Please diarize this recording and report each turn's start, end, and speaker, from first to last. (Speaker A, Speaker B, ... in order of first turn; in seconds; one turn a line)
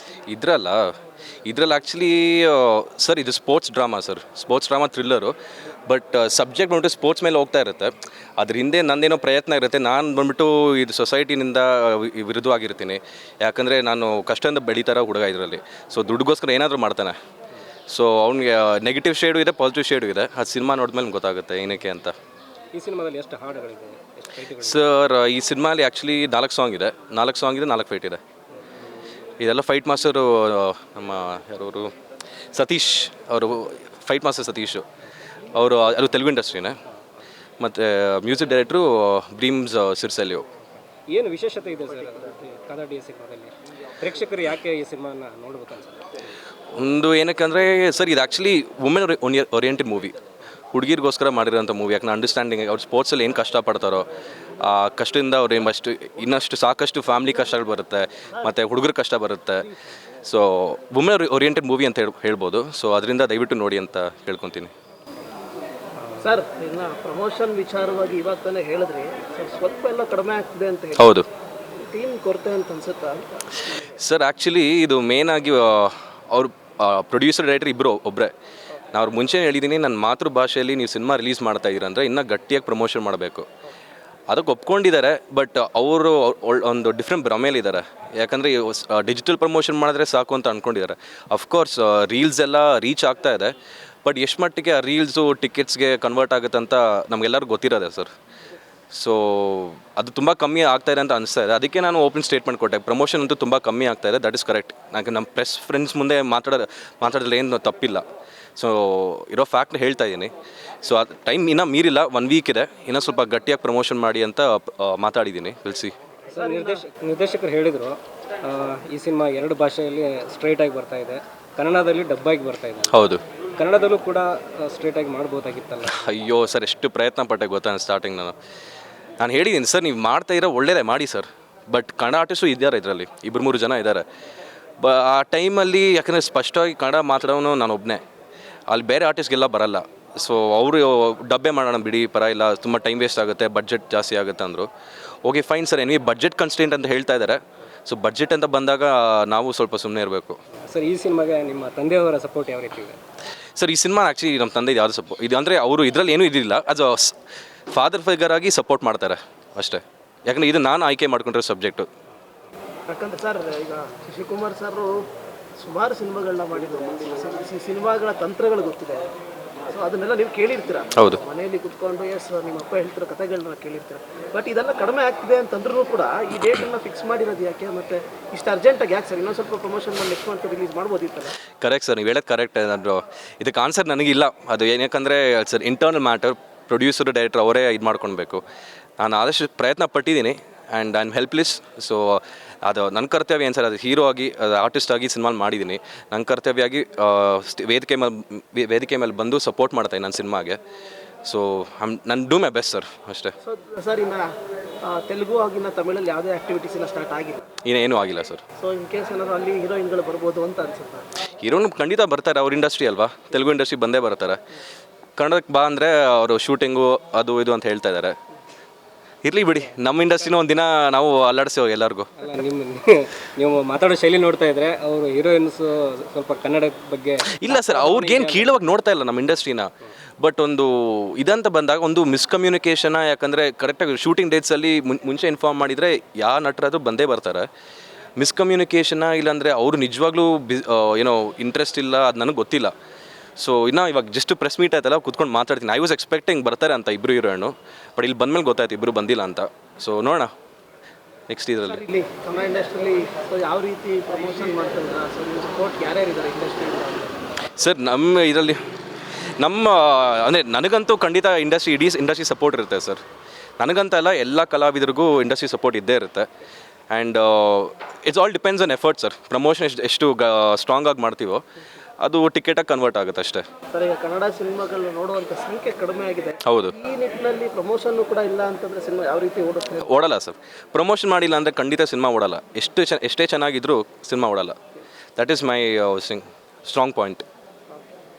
Speaker A: 0.3-5.3
Speaker A: 5.9-17.1
Speaker A: 17.9-22.1
Speaker B: 22.7-24.9
Speaker A: 24.6-28.2
Speaker A: 29.4-31.9
Speaker A: 32.5-34.9
Speaker A: 35.5-36.8
Speaker A: 37.6-40.5
Speaker B: 41.1-46.1
Speaker A: 46.7-50.2
Speaker A: 50.7-54.1
Speaker A: 54.6-59.7
Speaker A: 60.2-64.7
Speaker B: 66.1-66.3
Speaker C: 66.2-71.1
Speaker A: 71.0-71.3
Speaker C: 71.9-73.8
Speaker A: 73.7-78.3
Speaker A: 78.9-83.5
Speaker A: 84.3-93.5
Speaker A: 94.0-98.1
Speaker A: 98.9-108.0
Speaker A: 108.6-115.9
Speaker B: 116.3-126.0
Speaker C: 116.4-116.8
Speaker A: 122.9-123.2
Speaker A: 125.8-128.3
Speaker A: 129.2-134.0
Speaker A: 134.8-138.0
Speaker A: 138.7-144.7
Speaker A: 145.2-150.4
Speaker B: 150.7-153.0
Speaker A: 153.6-157.2
Speaker A: 157.7-161.9
Speaker C: 162.9-165.0
Speaker C: 165.6-169.1
Speaker C: 169.7-181.3
Speaker A: 181.6-188.4
Speaker A: 189.0-200.6
Speaker A: 201.2-203.3
Speaker C: 203.4-204.3
Speaker C: 204.8-207.4
Speaker A: 207.6-208.4
Speaker C: 208.6-211.1
Speaker A: 211.4-214.4
Speaker A: 215.2-218.2
Speaker A: 219.2-222.1
Speaker B: 222.2-228.6
Speaker A: 227.3-229.7
Speaker A: 230.2-237.5
Speaker A: 238.2-242.7
Speaker A: 243.4-250.3
Speaker A: 251.3-251.8
Speaker C: 251.8-257.2
Speaker A: 257.6-258.6
Speaker A: 259.4-263.0
Speaker A: 263.6-266.3
Speaker A: 266.9-271.4
Speaker A: 272.0-273.4
Speaker C: 273.7-279.9
Speaker A: 276.4-276.7
Speaker A: 279.8-284.6
Speaker A: 285.2-287.2